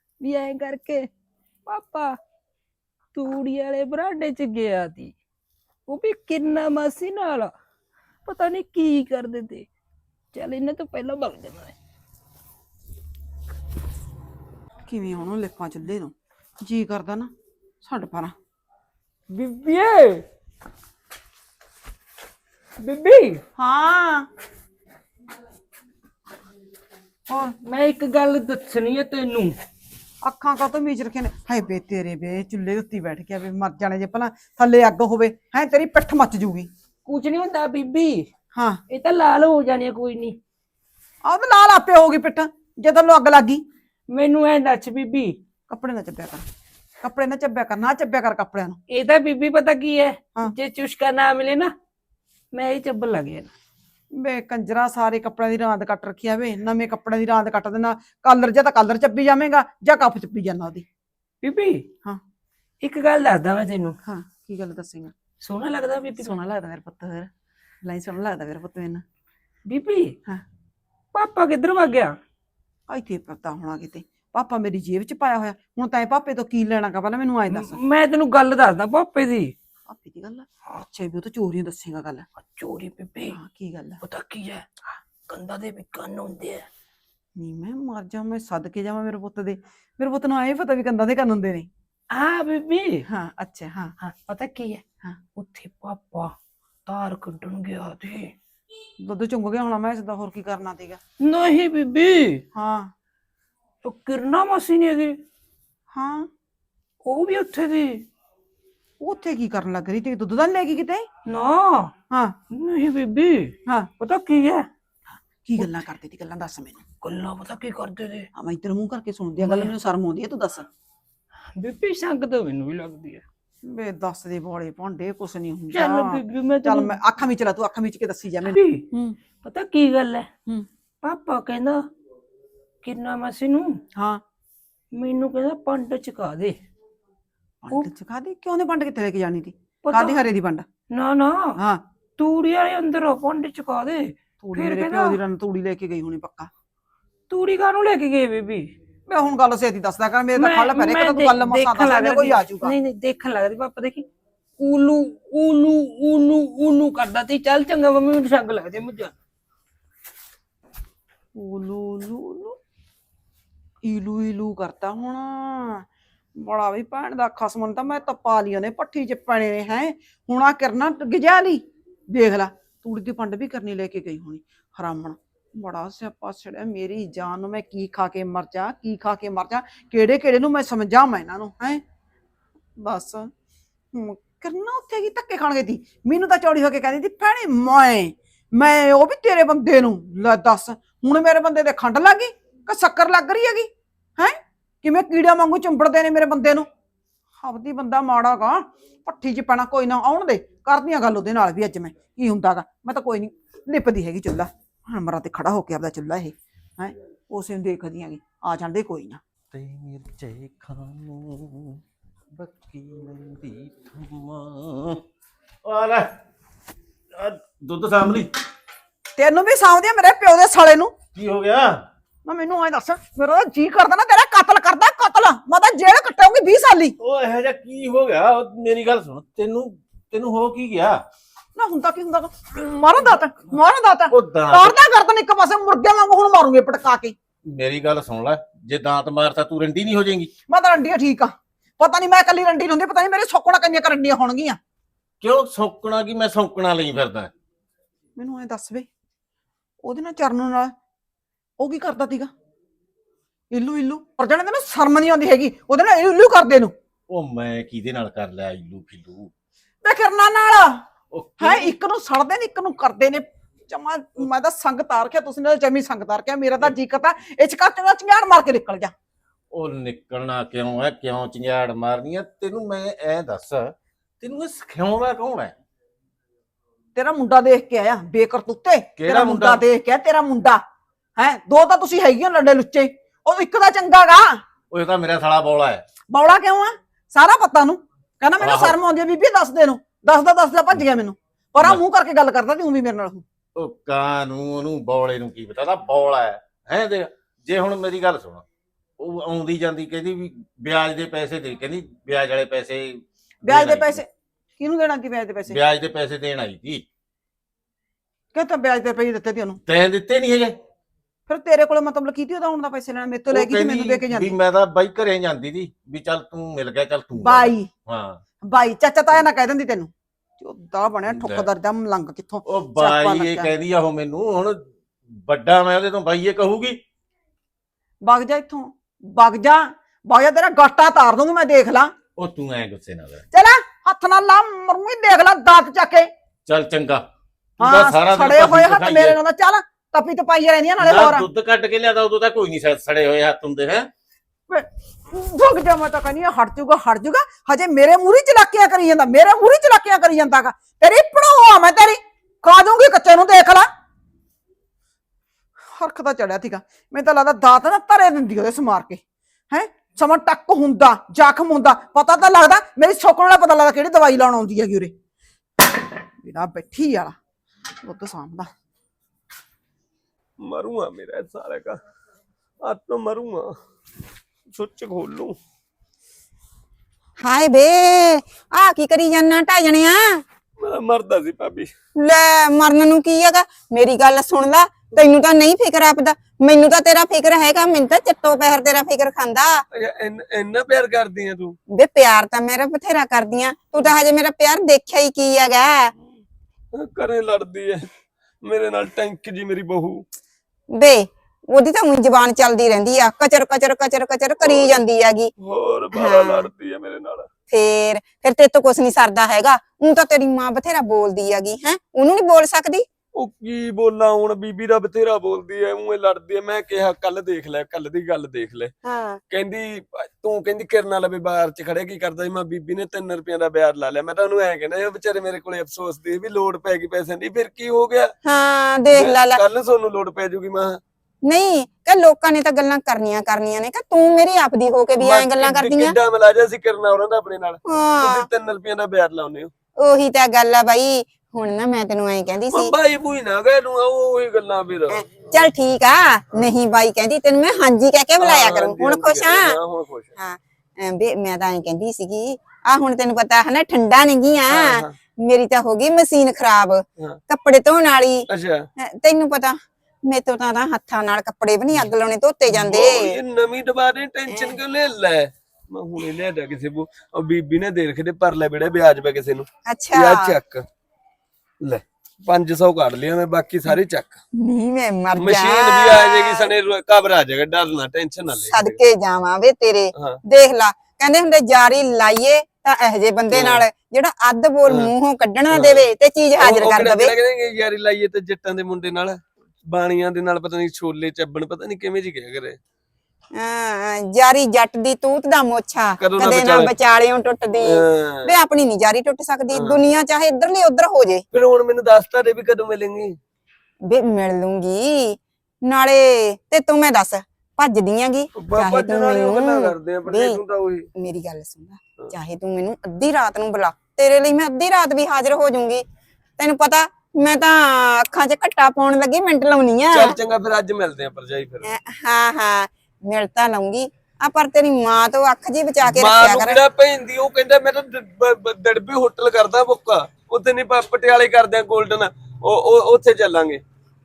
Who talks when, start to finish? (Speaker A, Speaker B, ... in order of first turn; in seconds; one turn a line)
Speaker A: 0.2-1.1
Speaker A: 1.6-2.1
Speaker A: 3.1-5.1
Speaker A: 5.9-7.5
Speaker A: 8.2-9.7
Speaker A: 10.3-11.7
Speaker B: 14.9-17.3
Speaker B: 17.8-18.3
Speaker A: 19.3-20.2
Speaker A: 22.8-23.4
Speaker B: 23.6-24.3
Speaker A: 27.6-29.5
Speaker B: 30.2-36.7
Speaker A: 37.0-38.2
Speaker B: 38.5-38.8
Speaker A: 38.9-40.4
Speaker B: 41.2-43.6
Speaker A: 44.1-45.4
Speaker B: 45.7-46.4
Speaker B: 47.0-48.8
Speaker A: 48.9-51.7
Speaker A: 52.5-53.5
Speaker B: 54.1-60.8
Speaker A: 61.4-61.9
Speaker A: 62.8-64.0
Speaker B: 64.0-65.1
Speaker A: 65.4-66.4
Speaker B: 66.2-67.3
Speaker B: 67.8-69.0
Speaker A: 69.7-70.1
Speaker A: 71.1-72.1
Speaker B: 72.9-77.8
Speaker A: 77.5-79.5
Speaker B: 79.9-82.2
Speaker A: 82.4-83.4
Speaker B: 83.3-84.0
Speaker A: 84.0-86.7
Speaker B: 87.3-91.7
Speaker A: 92.1-93.0
Speaker B: 93.1-93.9
Speaker A: 94.0-94.8
Speaker A: 95.3-96.3
Speaker A: 96.8-98.3
Speaker B: 99.0-101.0
Speaker A: 101.2-102.4
Speaker B: 102.5-102.9
Speaker A: 103.8-105.2
Speaker B: 105.9-106.3
Speaker A: 107.0-108.0
Speaker B: 109.0-111.1
Speaker A: 111.3-111.9
Speaker B: 112.1-112.3
Speaker A: 112.5-114.7
Speaker B: 115.4-116.8
Speaker A: 117.0-118.3
Speaker B: 118.3-120.7
Speaker A: 119.4-119.7
Speaker A: 121.5-123.2
Speaker B: 123.6-129.2
Speaker A: 125.7-126.9
Speaker A: 128.4-128.8
Speaker A: 129.4-130.3
Speaker A: 131.0-131.8
Speaker A: 132.8-133.8
Speaker B: 133.9-134.2
Speaker A: 134.9-136.5
Speaker B: 137.6-140.6
Speaker A: 139.8-140.2
Speaker A: 140.9-141.6
Speaker B: 141.6-141.8
Speaker A: 142.2-145.2
Speaker B: 144.4-146.5
Speaker A: 147.3-148.7
Speaker B: 149.1-152.7
Speaker A: 150.3-154.1
Speaker A: 154.6-159.1
Speaker B: 161.3-162.6
Speaker B: 163.8-165.8
Speaker B: 166.3-181.8
Speaker B: 182.8-183.3
Speaker B: 183.9-196.7
Speaker B: 197.4-209.2
Speaker C: 209.5-211.8
Speaker C: 212.3-215.0
Speaker C: 215.6-216.1
Speaker C: 217.1-218.3
Speaker B: 219.2-220.9
Speaker C: 221.1-221.8
Speaker B: 222.2-226.9
Speaker C: 227.0-231.0
Speaker B: 231.6-237.1
Speaker C: 234.1-234.8
Speaker C: 237.5-240.3
Speaker B: 240.5-244.6
Speaker C: 245.2-247.3
Speaker B: 248.2-248.9
Speaker B: 249.8-250.7
Speaker B: 251.6-252.3
Speaker B: 253.5-256.7
Speaker C: 257.1-259.3
Speaker B: 259.8-260.8
Speaker C: 261.1-261.7
Speaker B: 261.4-268.9
Speaker C: 269.5-275.5
Speaker B: 276.9-280.6
Speaker C: 279.0-279.6
Speaker B: 281.2-284.4
Speaker C: 284.7-285.8
Speaker B: 286.1-293.2
Speaker C: 288.4-288.7
Speaker C: 293.6-298.4
Speaker C: 299.0-304.0
Speaker B: 303.4-304.1
Speaker B: 304.6-305.6
Speaker C: 305.5-306.8
Speaker B: 308.3-309.6
Speaker C: 309.6-310.6
Speaker B: 311.3-314.3
Speaker C: 313.3-318.2
Speaker B: 317.2-317.7
Speaker B: 318.5-323.5
Speaker C: 321.1-321.5
Speaker C: 322.4-326.8
Speaker B: 328.0-331.9
Speaker C: 332.2-333.2
Speaker B: 333.3-336.1
Speaker C: 336.5-337.0
Speaker C: 337.6-339.2
Speaker B: 337.6-341.2
Speaker C: 340.8-343.9
Speaker B: 344.5-353.7
Speaker B: 355.7-364.9
Speaker B: 366.2-367.1
Speaker B: 367.8-368.5
Speaker D: 370.4-371.8
Speaker D: 372.6-373.5
Speaker D: 374.5-375.4
Speaker E: 377.2-380.2
Speaker D: 380.6-381.7
Speaker E: 382.0-389.6
Speaker D: 389.7-391.5
Speaker E: 391.7-395.9
Speaker D: 396.7-397.9
Speaker D: 398.4-400.0
Speaker E: 400.7-405.3
Speaker D: 404.4-404.7
Speaker D: 405.4-407.3
Speaker E: 405.9-406.4
Speaker E: 407.5-412.9
Speaker D: 413.2-418.7
Speaker E: 418.8-419.2
Speaker D: 419.3-428.1
Speaker E: 428.2-429.4
Speaker D: 428.9-430.8
Speaker E: 431.2-435.9
Speaker D: 435.0-439.5
Speaker E: 437.6-438.3
Speaker E: 439.8-442.7
Speaker D: 442.5-445.3
Speaker E: 444.9-449.5
Speaker D: 448.2-450.1
Speaker E: 450.2-458.2
Speaker D: 454.5-454.9
Speaker D: 458.3-458.6
Speaker E: 458.8-463.1
Speaker D: 462.5-470.6
Speaker E: 469.7-470.3
Speaker D: 471.6-474.2
Speaker E: 474.3-476.5
Speaker D: 475.1-478.8
Speaker E: 478.5-487.1
Speaker D: 483.3-483.6
Speaker D: 484.6-484.9
Speaker D: 485.5-485.9
Speaker D: 486.4-489.2
Speaker D: 489.7-492.6
Speaker E: 493.4-497.7
Speaker D: 496.0-496.7
Speaker D: 497.6-498.3
Speaker E: 498.3-501.2
Speaker D: 499.5-499.8
Speaker D: 501.3-503.1
Speaker E: 503.9-510.4
Speaker D: 508.3-510.9
Speaker E: 510.9-515.8
Speaker E: 516.4-520.1
Speaker D: 519.9-521.7
Speaker E: 521.6-526.6
Speaker D: 525.8-533.6